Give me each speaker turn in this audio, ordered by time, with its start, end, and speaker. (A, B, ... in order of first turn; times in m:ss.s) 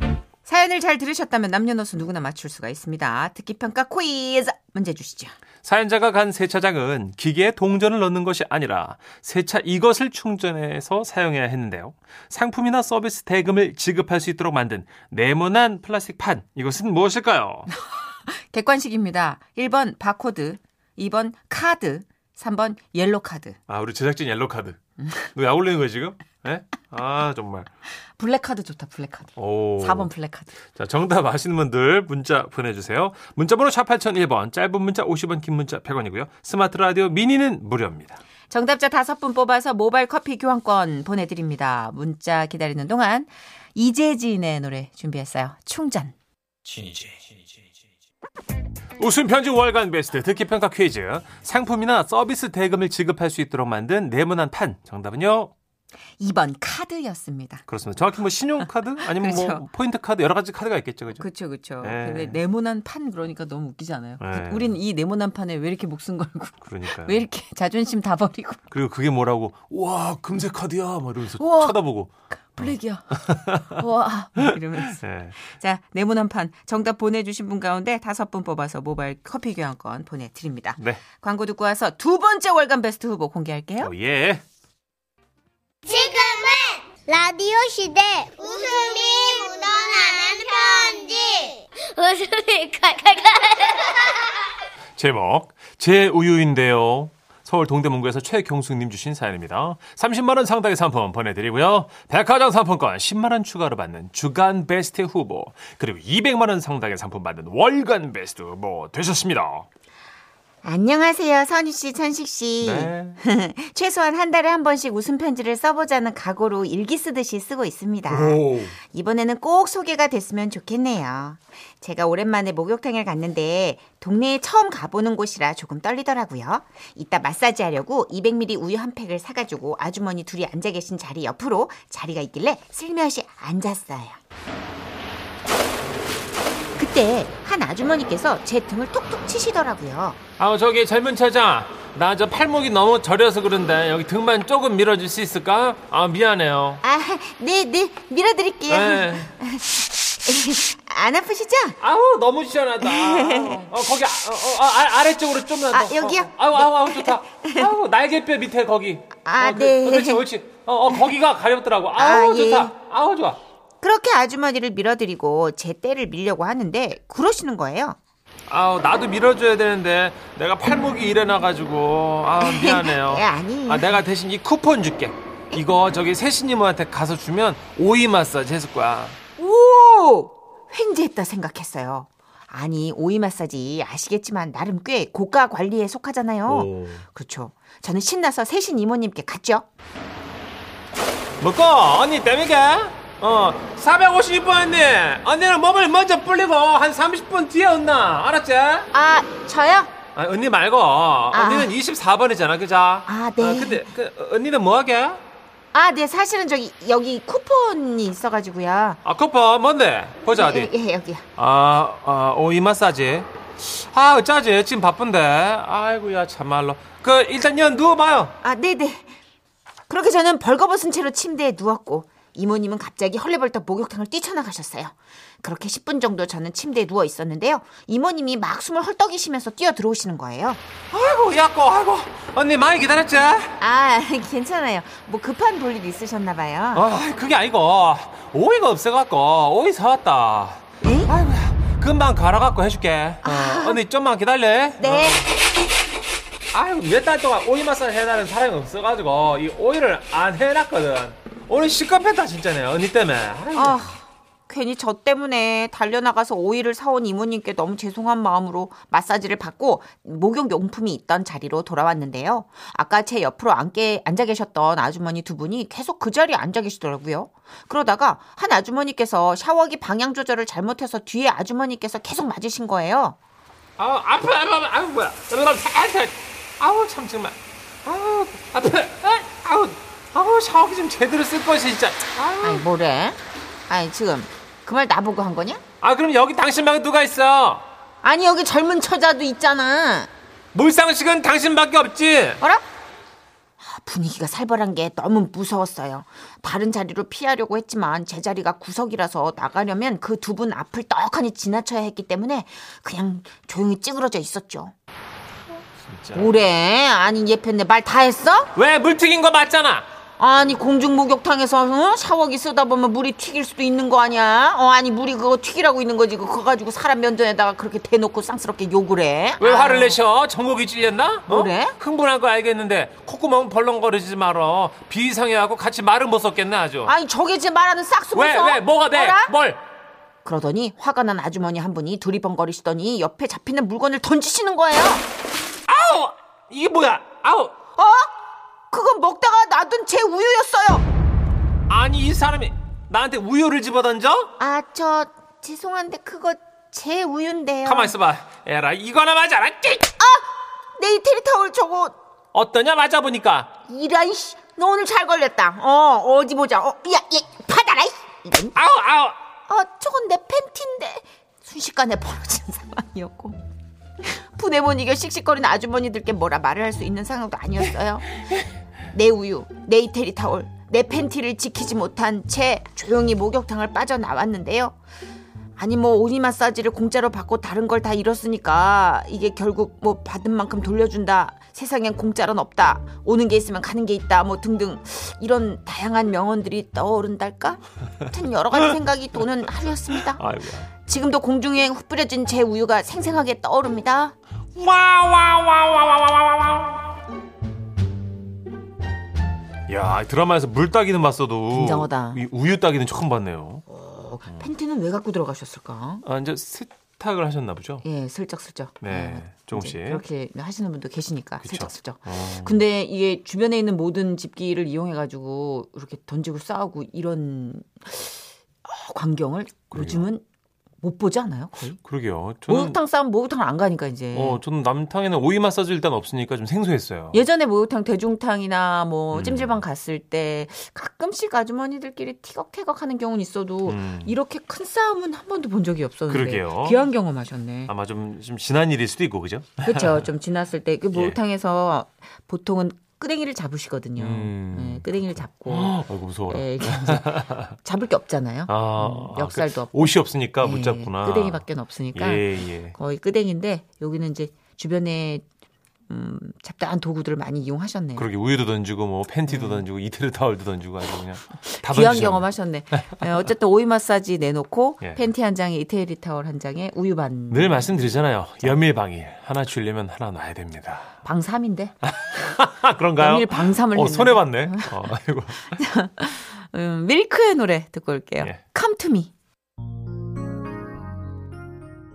0:00.4-0:05.3 A
0:05.6-0:17.7 B
0:18.3-0:23.6 A
0:23.7-0:24.8 B
0:25.3-0:27.7 B
0:28.2-0:30.5 A
0:29.4-0:30.1 B
0:30.7-0:38.2 B
0:38.5-0:46.2 A
0:46.7-0:47.2 B
0:49.0-0:55.5 B
0:56.2-0:57.6 A
0:57.7-1:01.2 B
0:59.0-0:59.6 A
1:01.2-1:08.6 A
1:01.8-1:02.4 B
1:04.2-1:04.8 B
1:06.6-1:07.2 B
1:08.7-1:13.8 B
1:11.4-1:11.8 A
1:12.3-1:23.9 A
1:14.4-1:15.4 B
1:23.8-1:24.4 B
1:25.9-1:34.3 C
1:35.0-1:49.7 B
1:50.6-2:14.2 A
1:52.6-1:53.2 B
1:58.1-1:58.8 B
2:16.8-2:20.2 A
2:20.4-2:26.8 B
2:26.8-2:31.8 A
2:28.7-2:29.3 B
2:31.8-2:43.4 B
2:32.8-2:33.7 A
2:35.7-2:37.7 A
2:39.2-2:40.2 A
2:42.0-2:42.7 A
2:43.8-2:48.0 A
2:48.5-2:59.2 B
2:52.4-2:54.0 A
2:59.4-3:09.7 A
3:06.5-3:07.0 B
3:11.4-3:18.9 B
3:18.9-3:19.9 A
3:20.2-3:25.2 B
3:21.3-3:21.7 A
3:23.1-3:23.8 A
3:25.7-3:29.0 A
3:29.0-3:30.7 B
3:30.3-3:31.2 A
3:31.4-3:38.4 B
3:38.4-3:39.1 A
3:39.9-3:50.6 A
3:50.9-3:53.6 B
3:53.6-3:56.8 A
3:56.7-4:05.3 B
4:00.8-4:01.1 A
4:03.2-4:03.8 A
4:04.8-4:05.3 A
4:06.5-4:13.9 B
4:13.6-4:33.2 A
4:33.8-4:42.6 B
4:42.4-4:45.6 A
4:45.8-4:47.6 B
4:48.0-4:50.1 A
4:50.5-4:52.4 B
4:53.6-5:04.7 A
5:05.8-5:06.3 B
5:06.1-5:08.5 A
5:08.6-5:09.9 B
5:10.2-5:20.0 A
5:19.4-5:26.9 B
5:21.3-5:21.8 A
5:26.8-5:29.3 A
5:28.1-5:29.6 B
5:30.2-5:35.0 A
5:35.7-5:37.6 B
5:37.8-5:38.1 A
5:38.7-5:40.9 A
5:41.7-5:44.3 B
5:44.4-5:47.9 A
5:47.6-5:49.9 B
5:50.0-5:52.0 A
5:52.3-5:53.5 B
5:53.7-5:58.6 A
5:58.6-5:59.2 B
5:59.5-6:03.4 A
6:04.0-6:08.1 A
6:08.9-6:14.8 A
6:15.6-6:30.2 A
6:29.9-6:30.7 B
6:30.8-6:34.2 A
6:34.5-6:37.0 B
6:39.7-6:43.6 B
6:41.5-6:42.2 A
6:43.7-6:46.0 A
6:46.0-6:47.8 B
6:47.8-7:00.2 A
6:48.8-6:50.0 B
6:51.4-6:52.6 B
6:59.7-7:00.1 B
7:00.8-7:01.8 A
7:01.8-7:02.8 B
7:02.5-7:04.4 A
7:04.1-7:07.2 B
7:07.1-7:17.7 A
7:09.1-7:09.6 B
7:13.6-7:14.2 B
7:16.1-7:16.8 B
7:17.7-7:20.0 B
7:19.6-7:25.8 A
7:24.0-7:27.6 B
7:26.3-7:35.2 A
7:28.5-7:31.4 B
7:32.0-7:32.8 B
7:35.9-7:38.1 A
7:38.0-7:42.2 B
7:39.3-7:39.6 A
7:41.4-7:47.7 A
7:47.3-7:51.0 B
7:51.0-7:51.7 A
7:51.8-7:55.6 B
7:53.0-7:54.9 A
7:55.4-7:59.1 A